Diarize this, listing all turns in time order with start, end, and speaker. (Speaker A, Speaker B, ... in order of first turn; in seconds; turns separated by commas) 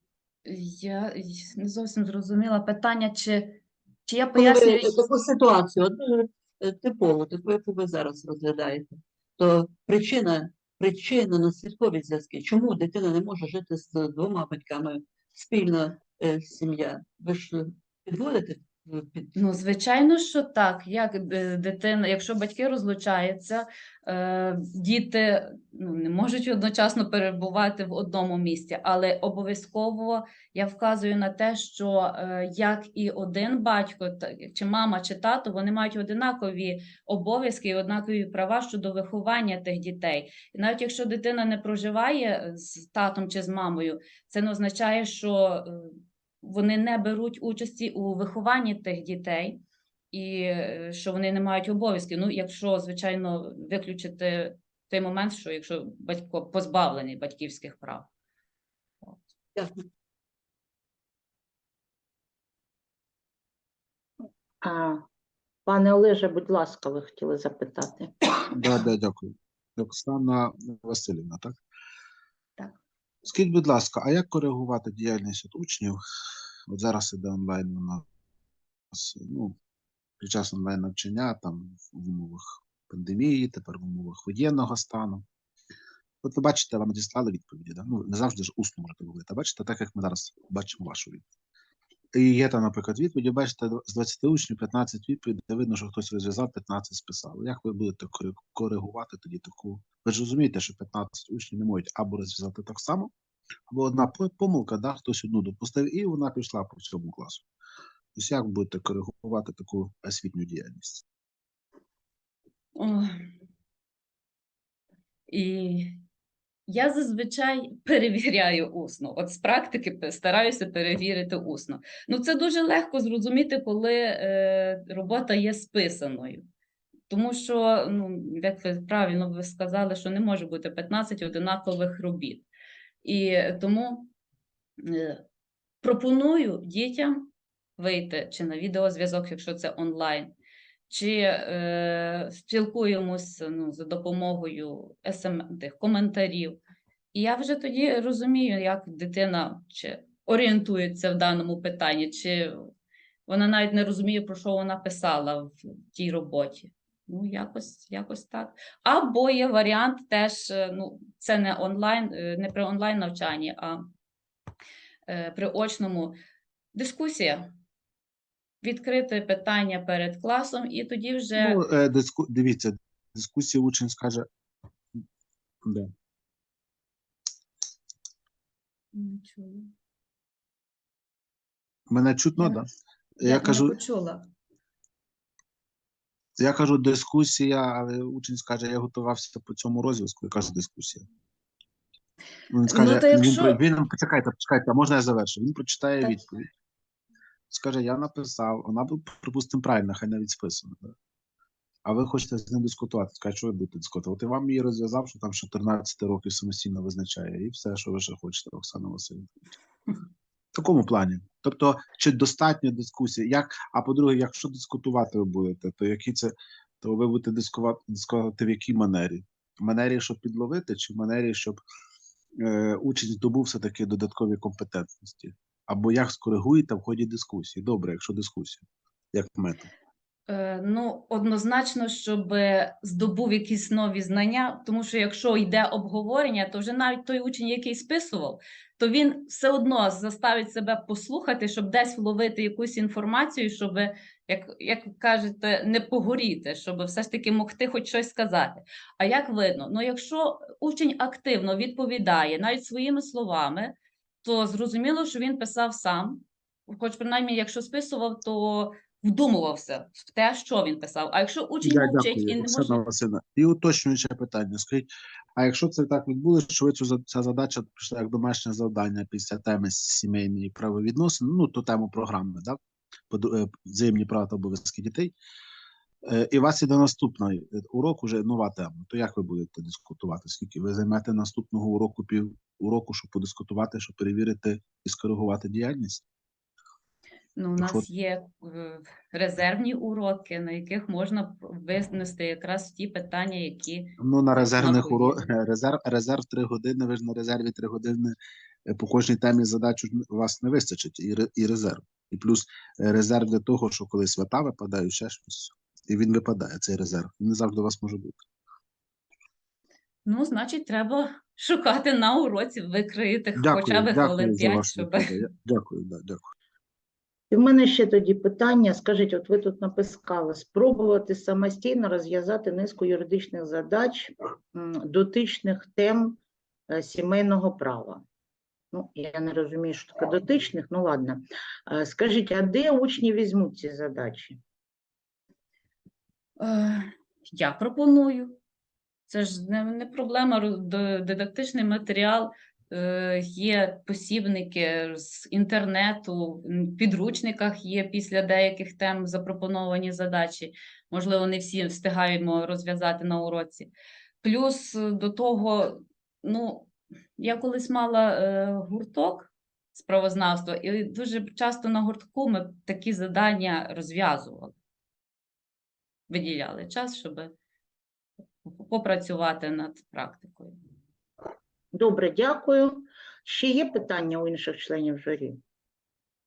Speaker A: 0.4-5.0, Speaker B: 4.3-19.3, Speaker A: 19.3-49.6, Speaker A: 50.1-58.1, Speaker B: 59.5-59.8, Speaker C: 64.6-65.0, Speaker C: 65.7-68.5, Speaker D: 68.5-71.5, Speaker D: 73.2-76.0, Speaker D: 76.7-78.0, Speaker D: 78.9-79.5, Speaker D: 80.2-85.2, Speaker D: 86.2-91.2, Speaker D: 92.1-103.1, Speaker D: 103.7-107.4, Speaker D: 108.2-111.0, Speaker A: 112.8-113.2, Speaker A: 115.3-116.0, Speaker A: 116.7-126.4, Speaker A: 127.1-132.5, Speaker A: 133.0-134.1, Speaker A: 134.8-135.2, Speaker A: 135.8-140.3, Speaker A: 140.9-146.6, Speaker A: 147.1-152.6, Speaker A: 153.3-163.8, Speaker A: 165.1-166.1, Speaker A: 166.7-167.5, Speaker A: 168.6-171.6, Speaker D: 171.4-174.2, Speaker D: 175.6-175.9, Speaker A: 178.9-179.7, Speaker D: 181.9-182.7, Speaker D: 183.2-183.8, Speaker A: 183.2-184.3, Speaker D: 186.4-191.0, Speaker D: 192.5-196.5, Speaker A: 192.7-193.6, Speaker D: 197.5-200.9, Speaker D: 201.8-209.3, Speaker D: 210.5-221.6, Speaker D: 222.4-229.7, Speaker A: 230.3-262.8, Speaker D: 261.6-272.6, Speaker D: 273.1-275.1, Speaker D: 276.1-286.0, Speaker A: 287.4-293.9, Speaker D: 287.6-287.8, Speaker D: 294.0-308.2, Speaker A: 294.6-295.3, Speaker A: 310.1-315.1, Speaker D: 313.3-316.3, Speaker C: 317.3-328.0, Speaker C: 328.7-334.4, Speaker A: 336.4-338.4, Speaker A: 339.1-353.7, Speaker A: 354.2-364.5, Speaker A: 366.1-367.3, Speaker A: 368.4-370.5, Speaker C: 371.7-375.4